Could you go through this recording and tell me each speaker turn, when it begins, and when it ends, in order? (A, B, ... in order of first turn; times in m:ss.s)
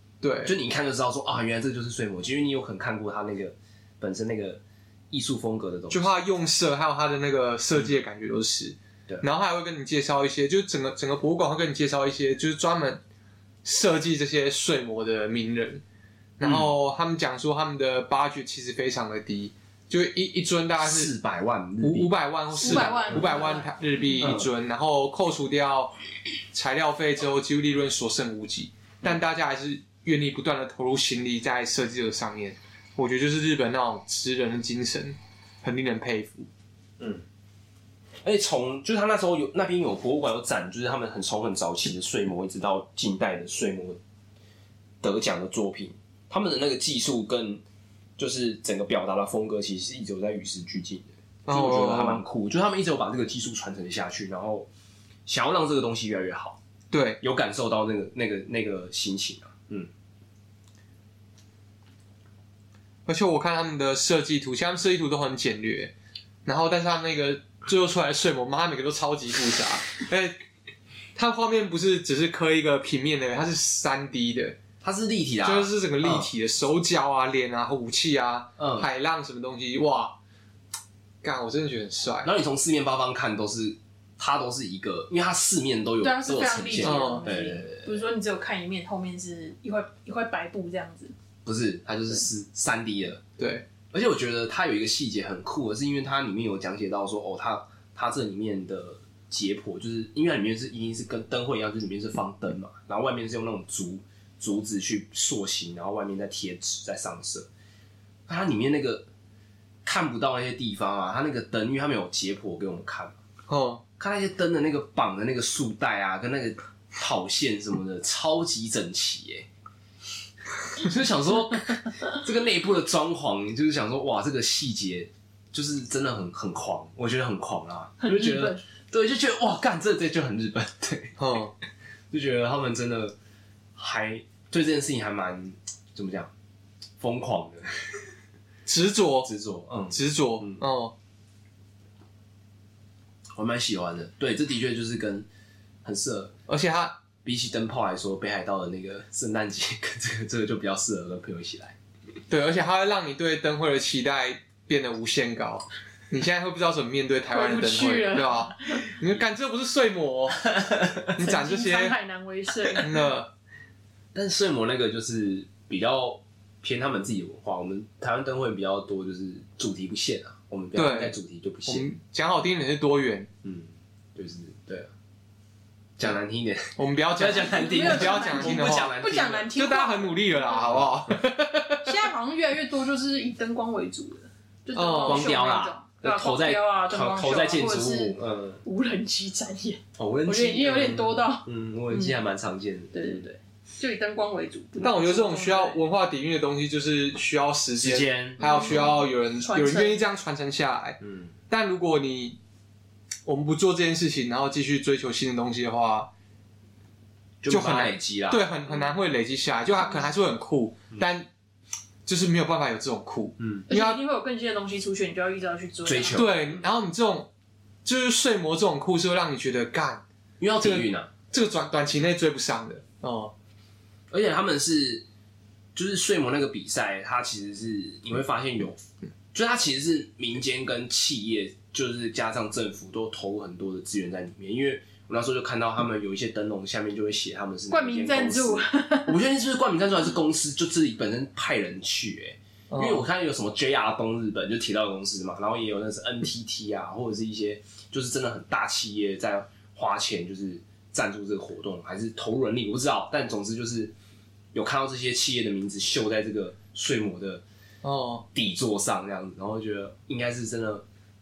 0:00.2-0:00.6 A
0:00.4-0:06.1 B
0:05.9-0:13.0 A
0:13.6-0:15.8 A
0:16.4-0:21.1 A
0:16.4-0:16.7 B
0:20.8-0:23.4 B
0:21.8-0:25.9 A
0:22.6-0:24.3 C
0:24.2-0:24.5 B
0:26.5-0:36.5 A
0:38.2-0:44.0 B
0:45.0-0:47.6 B
0:48.2-0:54.7 B
0:51.5-0:52.2 A
0:55.3-0:56.6 B
0:56.9-0:57.2 A
0:57.2-0:59.9 B
1:03.1-1:05.9 A
1:06.4-1:10.4 A
1:11.2-1:14.6 A
1:14.8-1:16.3 B
1:15.4-1:20.2 A
1:18.6-1:18.9 B
1:21.2-1:22.3 A
1:22.2-1:28.1 B
1:26.0-1:31.1 C
1:26.8-1:27.3 A
1:31.4-1:33.2 B
1:33.4-1:33.6 A
1:33.9-1:47.5 B
1:48.3-1:49.1 B
1:49.8-1:53.2 B
1:53.5-1:53.8 A
1:54.0-1:59.5 B
2:00.7-2:11.2 B
2:08.0-2:08.6 C
2:11.2-2:11.5 A
2:12.1-2:13.2 B
2:13.8-2:16.3 B
2:17.0-2:18.0 B
2:18.7-2:19.3 A
2:19.2-2:20.6 B
2:19.9-2:20.9 A
2:23.4-2:25.3 B
2:25.8-2:26.4 B
2:26.5-2:27.0 A
2:27.2-2:31.8 B
2:32.3-2:40.5 A
2:37.3-2:38.9 C
2:40.5-2:41.1 B
2:41.1-2:42.0 A
2:41.2-2:43.1 C
2:42.8-2:43.3 A
2:44.1-2:51.9 B
2:50.8-2:53.3 A
2:53.4-2:54.9 B
2:56.0-2:59.5 B
2:56.8-2:59.0 A
2:57.4-3:00.6 C
2:59.5-3:02.1 A
3:01.8-3:12.1 C
3:04.8-3:05.3 A
3:05.0-3:08.6 B
3:10.0-3:13.3 B
3:12.9-3:15.8 C
3:14.8-3:22.4 A
3:17.8-3:18.9 B
3:18.4-3:20.0 C
3:21.0-3:21.3 B
3:23.3-3:26.1 A
3:27.4-3:28.9 B
3:27.5-3:31.3 A
3:32.1-3:34.0 A
3:33.4-3:33.6 B
3:33.7-3:36.2 C
3:35.8-3:36.6 B
3:36.1-3:37.3 A
3:37.8-3:40.0 A
3:40.4-3:41.1 B
3:40.6-3:43.3 A
3:44.1-3:45.0 B
3:45.8-3:48.8 B
3:49.3-4:13.9 B
3:57.7-3:59.2 C
4:02.7-4:03.0 A
4:14.5-4:17.4 B
4:17.8-4:18.3 A
4:18.3-4:20.8 B